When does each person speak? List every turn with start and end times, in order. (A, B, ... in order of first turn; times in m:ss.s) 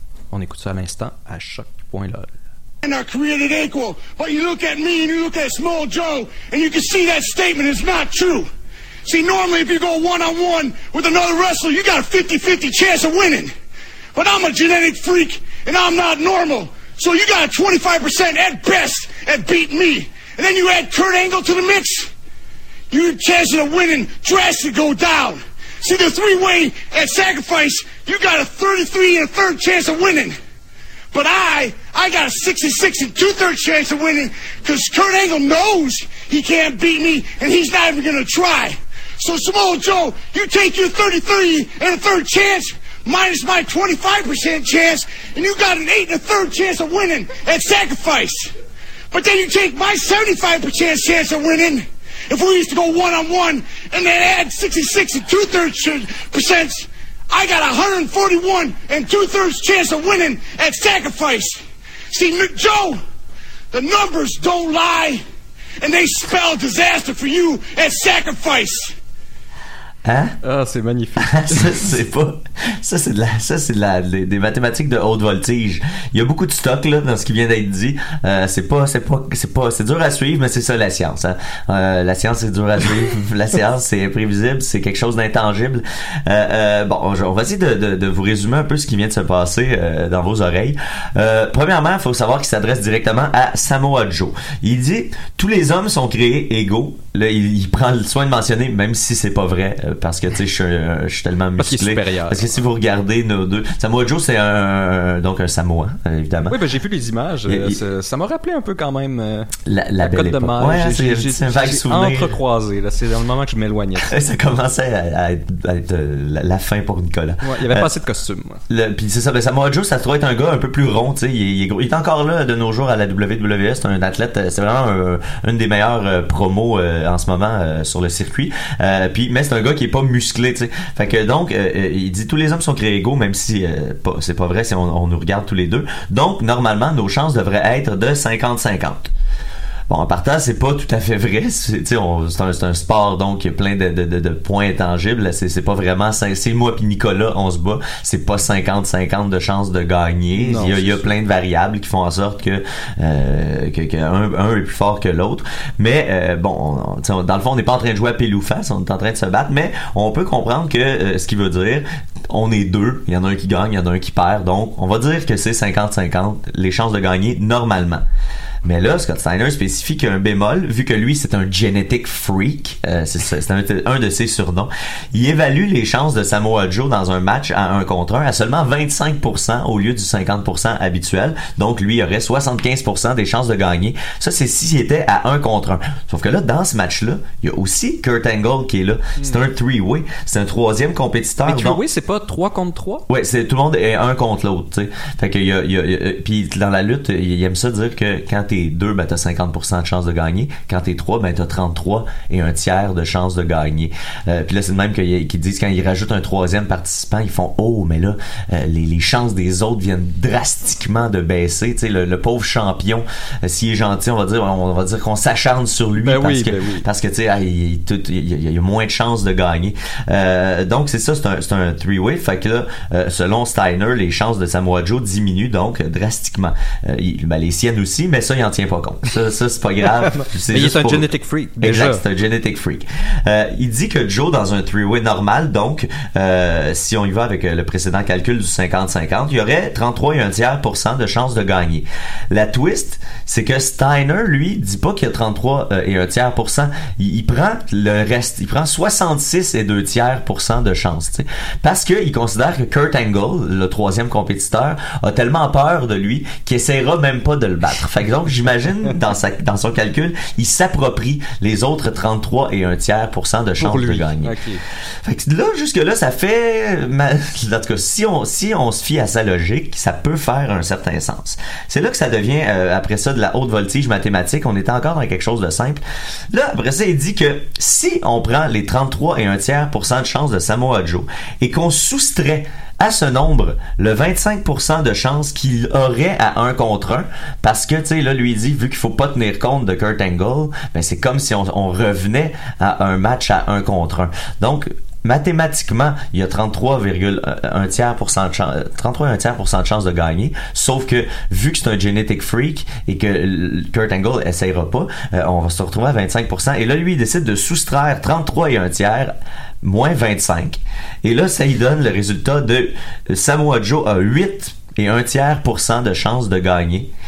0:00.3-0:02.3 A
0:02.8-0:08.5 B
0:09.0-0:13.5 B
0:14.1-0:22.1 B
0:22.9-0:30.4 B
0:31.1-0:48.5 B
0:49.1-1:03.0 B
1:03.7-1:05.2 B
1:05.8-1:08.9 B
1:10.0-1:10.3 C
1:10.4-1:11.9 A
1:11.2-1:46.6 C
1:41.6-1:42.6 A
1:46.5-1:49.5 A
1:47.4-1:47.8 C
1:49.6-1:52.3 C
1:50.0-1:54.1 A
1:54.0-1:57.9 C
1:57.4-1:58.6 A
1:58.7-2:19.1 C
2:19.9-2:48.0 C
2:30.3-2:31.1 A
2:48.6-3:11.8 C
3:09.2-3:09.4 A
3:11.4-3:13.0 A
3:13.1-4:24.4 C
3:36.0-3:36.8 A
3:50.1-3:52.0 A
4:23.6-4:24.6 A
4:25.0-5:16.9 C